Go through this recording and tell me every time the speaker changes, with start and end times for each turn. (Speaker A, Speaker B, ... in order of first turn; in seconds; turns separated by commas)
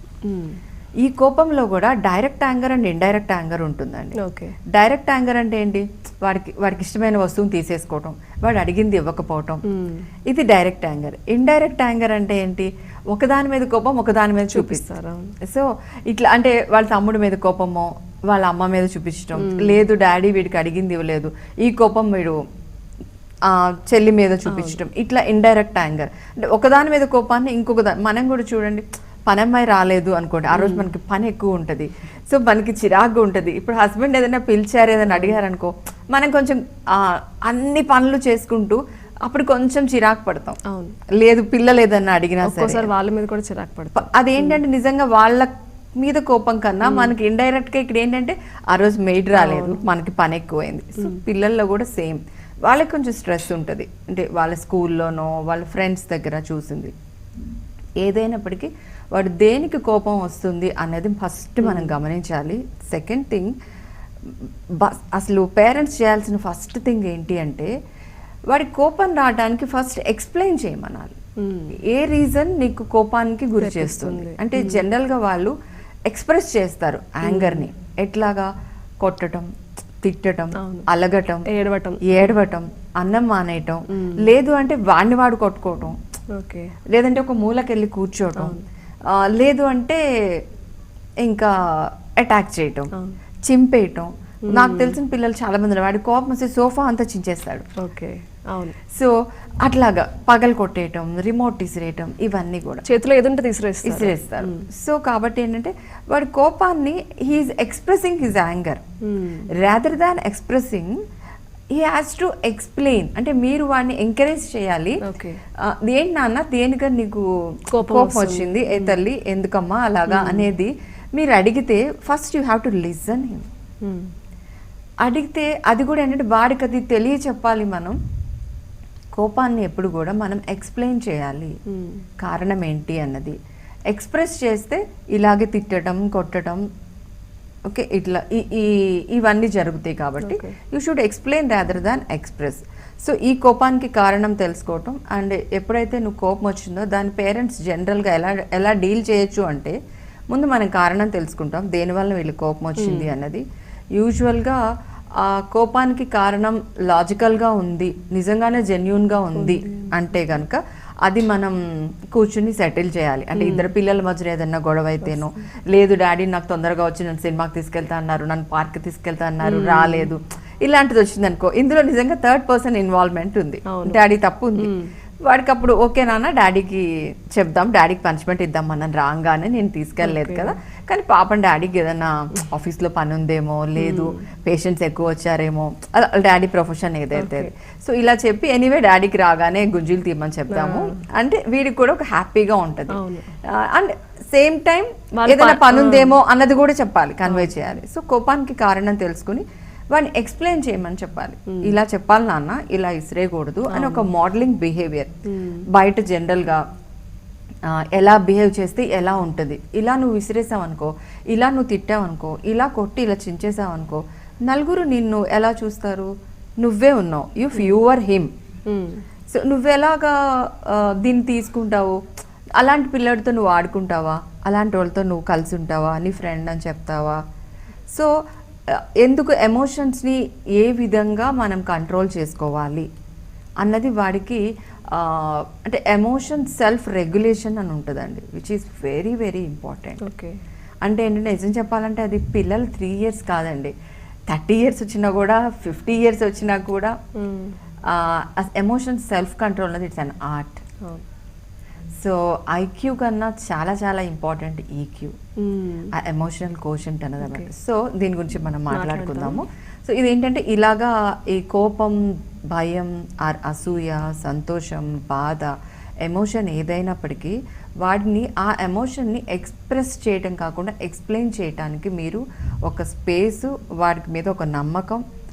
Speaker A: 0.2-0.6, Speaker B: 1.0-4.2, Speaker A: 4.2-4.6, Speaker B: 4.7-9.6, Speaker A: 9.7-10.1, Speaker B: 10.3-14.8, Speaker A: 14.5-15.3, Speaker B: 15.4-22.4, Speaker A: 19.4-19.8, Speaker B: 23.5-40.6, Speaker A: 24.5-24.8, Speaker A: 30.5-30.9, Speaker A: 35.1-35.4, Speaker A: 40.7-41.0, Speaker B: 41.2-42.9, Speaker A: 42.5-44.6, Speaker B: 44.0-56.9, Speaker A: 46.8-47.1, Speaker A: 49.4-49.8, Speaker B: 58.0-63.5, Speaker A: 61.6-62.0, Speaker B: 64.8-67.7, Speaker B: 68.5-71.2, Speaker A: 71.4-71.7, Speaker B: 71.8-75.5, Speaker A: 73.6-74.8, Speaker B: 76.1-78.5, Speaker A: 77.2-77.7, Speaker B: 79.0-79.5, Speaker B: 80.0-81.5, Speaker A: 80.6-80.9, Speaker A: 81.5-82.2, Speaker B: 82.0-86.0, Speaker A: 83.9-84.2, Speaker A: 86.3-86.7, Speaker B: 86.9-88.6, Speaker A: 88.4-88.7, Speaker B: 89.1-90.0, Speaker B: 91.2-92.9, Speaker B: 93.5-97.7, Speaker A: 94.5-95.0, Speaker A: 97.8-98.8, Speaker B: 98.9-102.8, Speaker A: 102.9-104.7, Speaker B: 103.8-108.8, Speaker A: 109.1-109.5, Speaker B: 109.6-111.0, Speaker B: 111.8-115.0, Speaker A: 115.0-115.4, Speaker B: 115.6-117.3, Speaker A: 117.8-119.0, Speaker B: 117.8-123.5, Speaker A: 120.1-120.5, Speaker A: 123.8-124.1, Speaker B: 125.0-128.0, Speaker B: 129.2-131.5, Speaker A: 131.7-132.1, Speaker B: 132.2-133.4, Speaker B: 133.9-136.6, Speaker B: 137.7-149.8, Speaker A: 140.2-140.6, Speaker B: 150.3-153.4, Speaker A: 152.8-153.1, Speaker B: 154.0-154.6, Speaker B: 155.2-161.6, Speaker A: 159.3-160.0, Speaker B: 162.1-174.7, Speaker A: 163.4-163.7, Speaker A: 169.4-170.1, Speaker A: 173.7-174.0, Speaker A: 174.6-174.9, Speaker B: 175.3-205.1, Speaker A: 180.0-180.5, Speaker A: 183.8-184.2, Speaker A: 187.2-187.5, Speaker A: 190.5-191.0, Speaker A: 192.9-193.3, Speaker A: 195.2-196.2, Speaker A: 197.3-197.5, Speaker A: 201.5-201.8, Speaker A: 203.7-204.1, Speaker A: 205.3-205.6, Speaker B: 205.7-206.6, Speaker B: 207.7-216.1, Speaker B: 216.6-218.3, Speaker A: 218.7-219.0, Speaker B: 219.3-222.0, Speaker B: 222.6-227.2, Speaker B: 228.7-232.9, Speaker B: 233.6-240.0, Speaker A: 240.0-240.4, Speaker B: 240.8-243.7, Speaker B: 244.3-246.9, Speaker A: 247.2-247.6, Speaker B: 247.9-250.6, Speaker B: 252.0-255.2, Speaker A: 255.4-255.9, Speaker B: 255.9-262.0, Speaker A: 257.2-257.5, Speaker A: 258.7-259.4, Speaker B: 262.5-265.5, Speaker B: 266.1-275.0